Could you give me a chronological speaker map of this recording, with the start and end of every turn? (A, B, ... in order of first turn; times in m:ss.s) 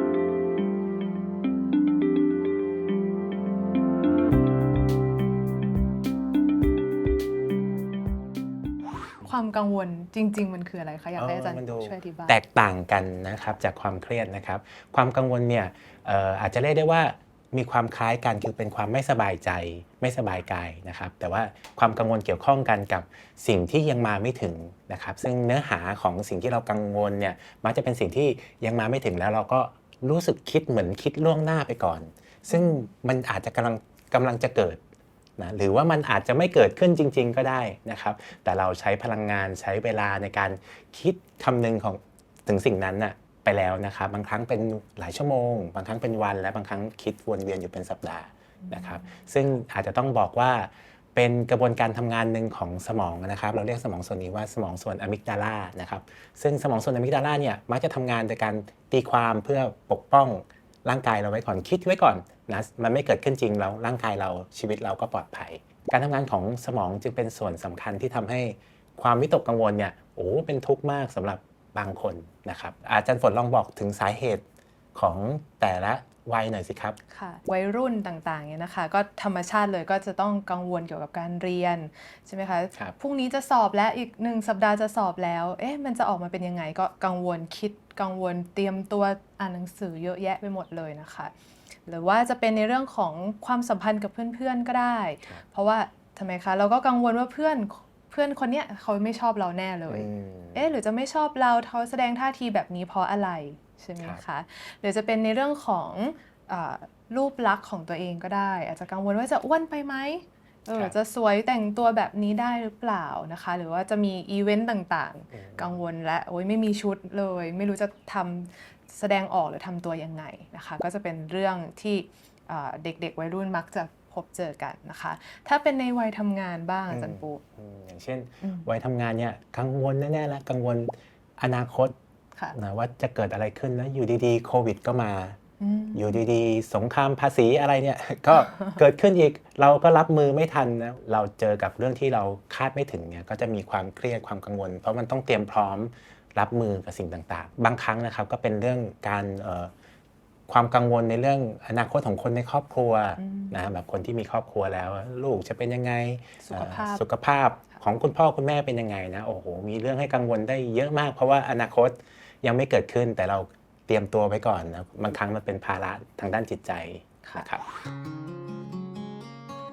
0:09.2-0:12.4 A
0:11.2-0:34.8 B
0:32.5-0:32.8 A
0:35.4-1:14.4 B
0:48.6-0:49.3 A
1:14.9-1:17.0 B
1:17.1-1:31.3 A
1:31.9-2:07.4 A
1:39.9-1:40.7 B
1:55.3-1:55.8 B
2:06.9-2:11.9 B
2:08.4-2:08.7 A
2:12.5-2:15.4 B
2:15.6-2:16.2 A
2:15.9-2:29.7 B
2:18.4-2:18.8 A
2:30.5-2:47.7 B
2:33.2-2:33.6 A
2:36.4-2:37.0 A
2:47.2-2:47.5 A